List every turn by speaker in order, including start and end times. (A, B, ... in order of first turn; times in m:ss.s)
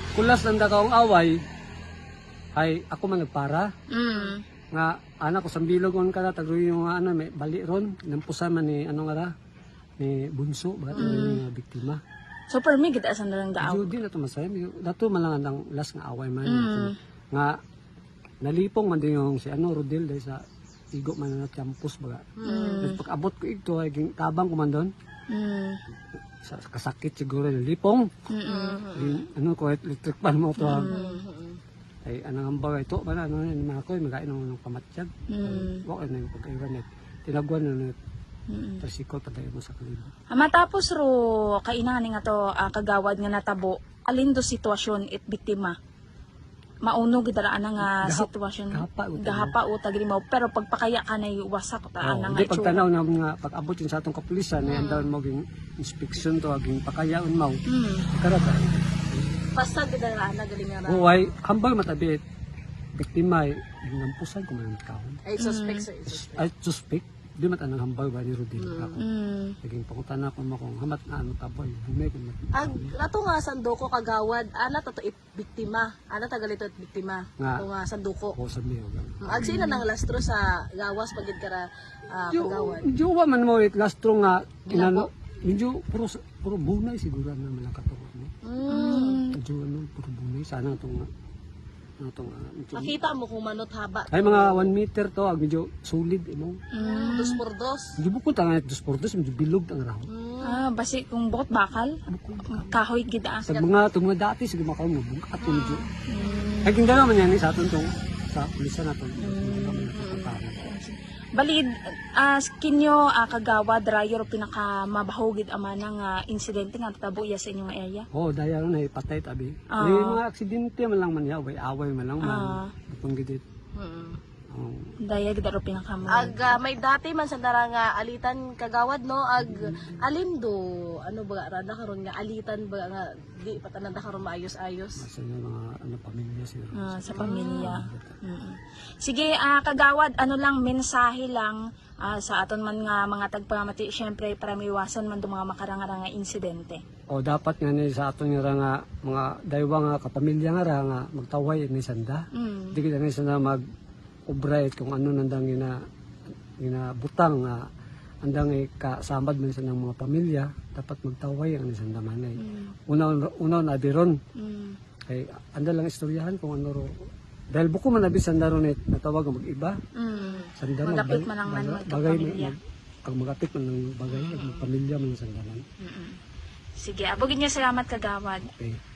0:00.1-0:01.3 A
0:02.6-0:03.7 A
0:03.9-0:04.4 B
0:04.7-0:09.3 A
0:10.0-0:12.0 A
0:10.9-0:11.3 C
0:11.0-0:11.4 B
0:12.5-0:13.9 B
0:13.6-0:17.5 A
0:16.4-0:16.9 B
0:18.4-0:20.4 A
0:20.9-0:22.2 A
0:22.4-0:22.9 C
0:22.4-0:23.0 B
0:22.8-0:24.9 A
0:25.3-0:25.8 B
0:26.4-0:28.1 A
0:28.3-0:28.8 B
0:28.4-0:29.2 C
0:28.9-0:30.9 A
0:30.6-0:31.2 B
0:30.7-0:31.6 C
0:32.0-0:37.9 A
0:35.3-0:35.8 B
0:38.5-0:38.8 B
0:38.8-0:40.1 A
0:40.3-0:45.8 B
0:46.8-0:52.9 B
0:47.8-0:49.6 A
0:52.0-0:57.6 A
0:54.6-0:55.1 C
0:57.7-0:58.1 B
0:58.1-0:59.4 A
0:59.5-1:01.3 C
1:00.8-1:02.2 A
1:03.0-1:05.2 A
1:05.2-1:06.5 C
1:05.4-1:05.8 B
1:06.1-1:09.1 A
1:08.6-1:09.0 C
1:09.0-1:09.6 B
1:09.6-1:13.0 A
1:12.5-1:18.4 C
1:17.4-1:17.6 A
1:18.3-1:19.6 A
1:19.2-1:22.9 C
1:19.4-1:19.8 B
1:22.3-1:28.3 A
1:24.7-1:25.1 C
1:28.4-1:29.2 C
1:28.7-1:29.4 B
1:28.9-1:31.0 A
1:32.0-1:33.0 A
1:32.8-1:34.7 C
1:34.1-1:36.6 A
1:36.7-1:37.4 B
1:36.8-1:37.9 C
1:38.0-1:40.1 A
1:40.1-1:40.6 C
1:40.4-1:42.0 B
1:42.1-1:42.8 A
1:42.5-1:43.5 B
1:43.5-1:45.8 A
1:45.4-1:46.8 B
1:46.6-1:50.6 A
1:49.2-1:49.9 B
1:49.9-1:50.4 C
1:50.5-1:58.1 B
1:58.1-2:03.4 A
1:59.7-2:00.2 B
2:02.2-2:02.7 B
2:03.8-2:04.2 C
2:04.5-2:04.9 A
2:05.0-2:06.6 B
2:06.1-2:15.0 C
2:09.4-2:10.1 A
2:15.0-2:18.2 A
2:16.8-2:26.8 B
2:17.2-2:17.8 C
2:27.1-2:33.6 A
2:32.3-2:32.8 B
2:34.3-2:35.7 A
2:36.6-2:37.6 A
2:38.2-2:44.2 A
2:42.4-2:42.7 B
2:44.4-2:44.8 B
2:45.1-2:46.9 A
2:47.5-2:49.7 A
2:50.0-2:52.6 B
2:50.1-2:50.5 C
2:50.6-2:55.6 A
2:54.1-2:54.7 C
2:55.8-2:56.2 B
2:56.8-2:58.5 B
2:58.5-2:58.8 A